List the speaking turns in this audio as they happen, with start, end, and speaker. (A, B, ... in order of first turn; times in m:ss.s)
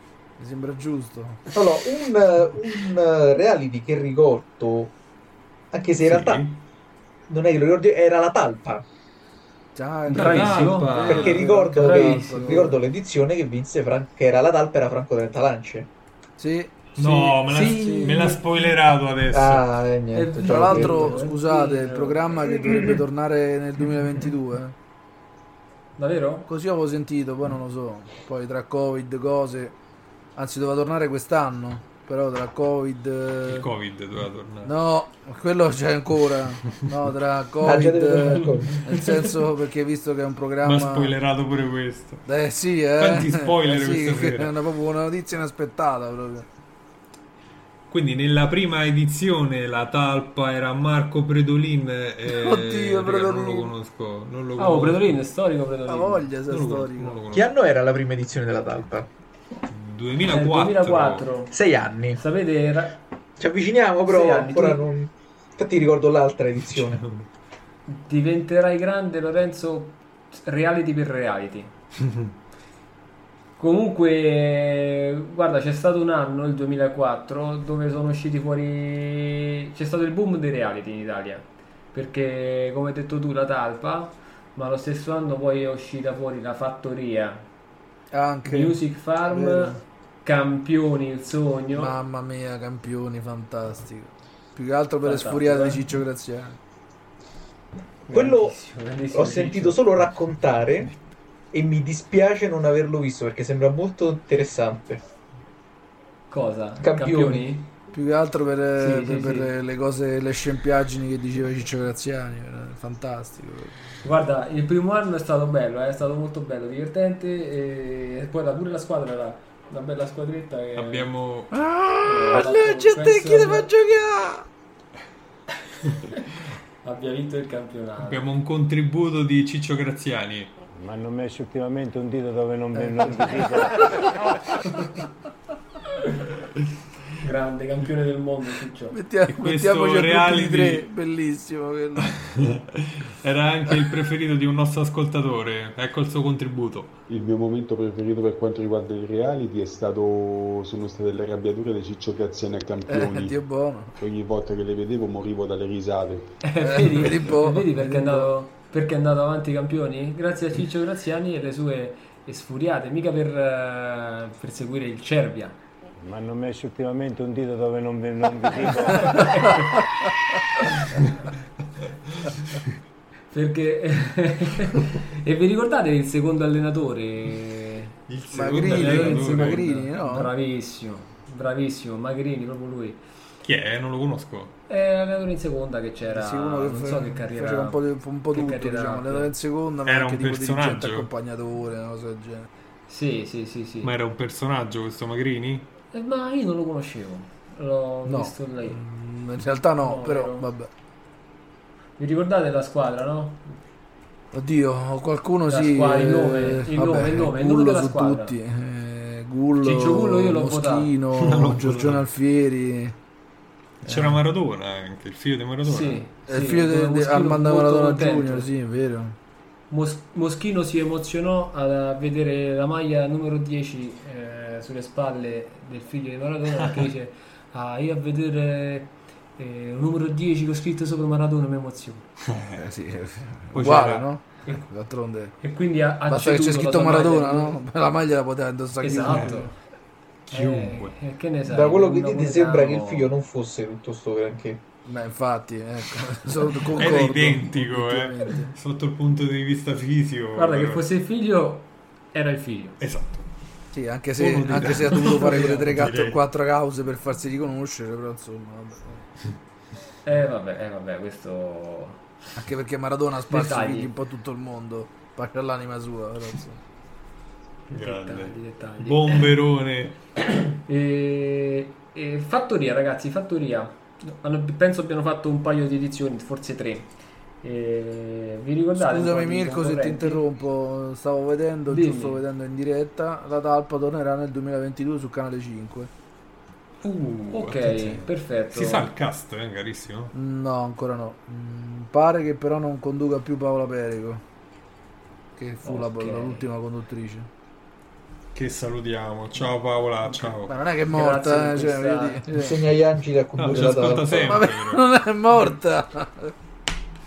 0:00.4-0:01.5 A
0:01.5-0:04.9 B
0:05.7-0:06.5 B
0:06.0-0:06.6 C
0:07.3-0:08.8 B
0:09.8-0:12.7 A
0:10.1-0:12.8 D
0:10.1-0:11.4 C
0:11.1-0:15.9 B
0:16.4-0:18.4 A
0:17.0-0:19.6 C
0:19.3-0:21.2 B
0:20.1-0:23.0 D
0:20.2-0:24.8 A
0:26.0-0:26.5 D
0:26.5-0:29.8 A
0:30.4-0:33.7 A
0:33.5-0:34.7 C
0:34.6-0:41.2 A
0:37.6-0:38.9 B
0:40.6-0:42.2 C
0:42.3-0:46.5 A
0:43.0-0:44.5 C
0:47.9-0:55.2 C
0:52.2-0:53.7 A
0:54.6-0:56.3 D
0:55.9-0:57.2 A
0:56.5-0:57.5 C
0:57.3-0:59.1 B
0:59.7-1:01.3 C
1:00.3-1:01.5 D
1:01.5-1:02.2 B
1:02.2-1:03.0 D
1:03.4-1:07.0 B
1:04.0-1:04.9 D
1:06.7-1:07.3 C
1:07.9-1:11.7 D
1:13.6-1:27.5 D
1:28.1-1:29.8 A
1:28.5-1:32.0 D
1:31.7-1:36.6 A
1:35.0-1:35.8 D
1:38.1-1:39.9 D
1:38.1-1:38.6 B
1:39.1-1:40.9 B
1:41.5-1:45.0 B
1:46.3-1:47.7 D
1:46.8-1:47.5 B
1:47.9-1:53.8 A
1:48.8-1:49.5 D
1:54.0-2:01.1 D
2:00.8-2:01.6 C
2:01.5-2:04.5 A
2:02.0-2:03.7 D
2:06.8-2:08.2 D
2:08.0-2:10.5 C
2:10.7-2:14.1 E
2:17.2-2:19.0 D
2:18.9-2:22.2 A
2:19.3-2:20.9 C
2:22.0-2:27.0 C
2:27.1-2:33.5 F
2:32.9-2:34.0 A
2:34.0-2:36.5 F
2:36.4-2:45.6 D
2:36.6-2:38.3 A
2:46.0-2:49.7 E
2:53.3-2:58.0 D
2:58.1-2:59.7 C
2:58.3-3:00.3 A
2:58.6-3:03.0 D
3:03.4-3:04.5 C
3:04.7-3:07.8 D
3:06.1-3:12.5 A
3:08.3-3:09.3 D
3:09.9-3:11.1 C
3:12.9-3:13.9 D
3:13.8-3:15.7 C
3:15.9-3:18.8 D
3:18.0-3:20.7 A
3:19.8-3:20.5 D
3:22.0-3:23.6 D
3:24.3-3:33.0 A
3:25.5-3:28.4 D
3:29.6-3:30.9 D
3:31.2-3:32.0 C
3:33.8-3:36.0 C
3:33.9-3:34.2 A
3:35.6-3:38.5 D
3:36.3-3:39.2 A
3:39.7-3:52.1 D
3:52.6-3:55.4 A
3:53.5-3:54.1 C
3:55.4-3:57.6 D
3:56.1-3:59.5 A
3:58.8-3:59.5 D
3:59.1-3:59.4 C
4:00.3-4:01.0 C
4:00.3-4:03.1 D
4:01.5-4:04.6 B
4:04.9-4:08.5 A
4:06.7-4:10.8 C
4:10.4-4:12.8 D
4:12.8-4:13.3 C
4:13.7-4:19.1 A
4:14.2-4:16.2 C
4:20.0-4:22.0 D
4:22.4-4:26.6 A
4:23.3-4:23.9 D
4:27.7-4:29.3 D
4:27.7-4:30.0 C
4:30.3-4:36.9 D
4:37.4-4:40.2 D
4:38.8-4:45.9 A
4:41.7-4:42.2 D
4:46.8-4:50.1 C
4:47.3-4:48.9 D
4:50.1-4:54.2 A
4:55.4-4:57.3 A
4:55.6-4:56.5 D
4:58.3-5:00.5 C
5:00.4-5:02.7 A
5:00.9-5:02.2 D
5:02.4-5:04.4 B
5:03.4-5:04.8 C
5:04.2-5:06.3 A